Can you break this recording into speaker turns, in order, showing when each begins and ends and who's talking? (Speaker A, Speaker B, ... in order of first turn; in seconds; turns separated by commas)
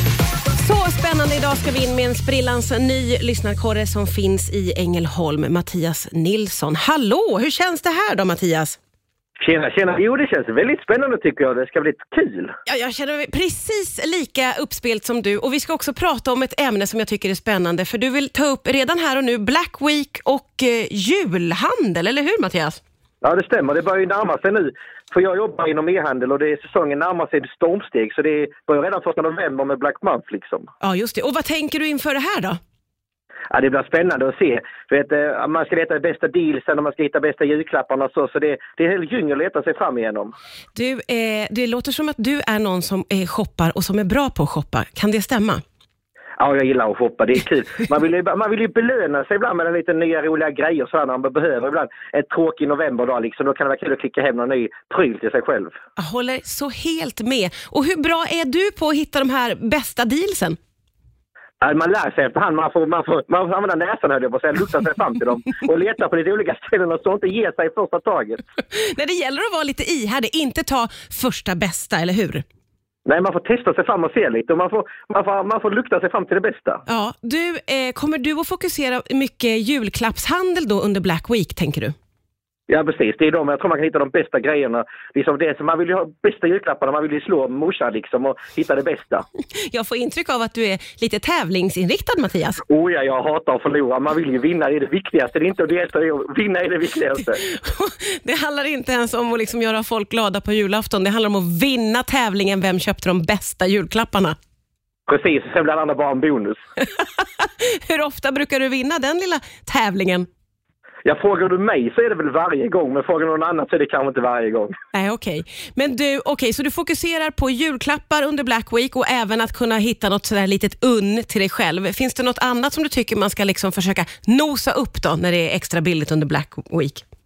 Speaker A: 0.6-8.8, Speaker B: 9.4-12.5, Speaker A: 12.7-22.8, Speaker B: 23.2-30.7, Speaker A: 30.8-32.6, Speaker B: 33.5-40.3, Speaker A: 40.8-45.6, Speaker B: 46.4-55.8, Speaker A: 56.0-60.6, Speaker B: 61.6-68.4, Speaker A: 68.7-72.4, Speaker B: 73.1-76.8, Speaker A: 76.9-81.9, Speaker B: 82.7-89.2, Speaker A: 89.7-92.6, Speaker B: 92.7-97.4, Speaker A: 97.4-104.4, Speaker B: 105.1-106.6, Speaker A: 107.0-110.3, Speaker B: 111.0-114.7, Speaker A: 114.9-127.0